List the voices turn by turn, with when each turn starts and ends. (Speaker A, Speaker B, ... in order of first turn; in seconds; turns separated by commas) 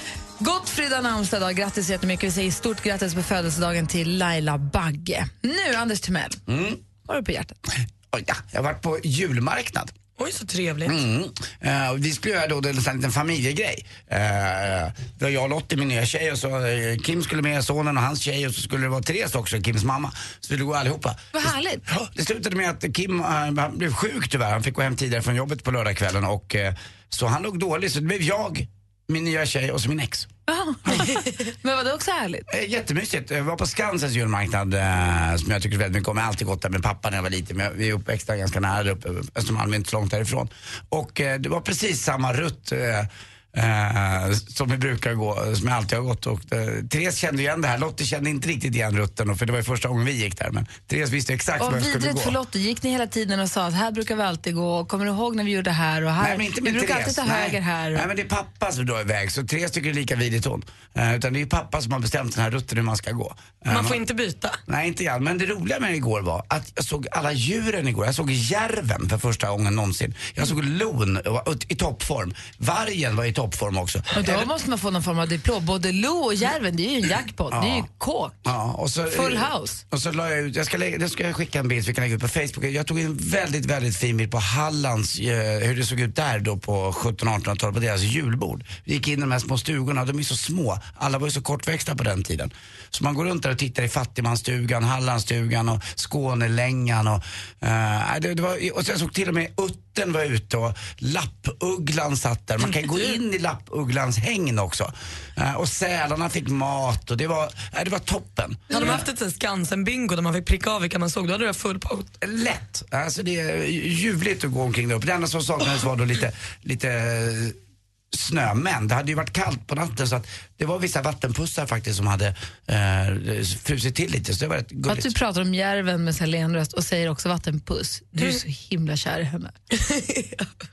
Speaker A: 0.4-6.4, Speaker B: 6.5-6.8, Speaker A: 7.1-7.6, Speaker B: 8.1-9.9, Speaker C: 10.2-11.0, Speaker B: 10.8-30.3, Speaker A: 21.3-21.8, Speaker A: 30.5-32.5, Speaker B: 32.5-52.4, Speaker A: 51.6-58.1, Speaker B: 56.2-64.0, Speaker C: 63.7-64.6, Speaker B: 64.7-74.5, Speaker A: 74.1-78.3, Speaker B: 77.5-77.9, Speaker B: 78.5-109.1, Speaker A: 79.1-79.8, Speaker C: 108.7-112.1, Speaker B: 112.2-117.6, Speaker B: 118.1-125.1, Speaker A: 124.9-129.5, Speaker C: 129.7-130.5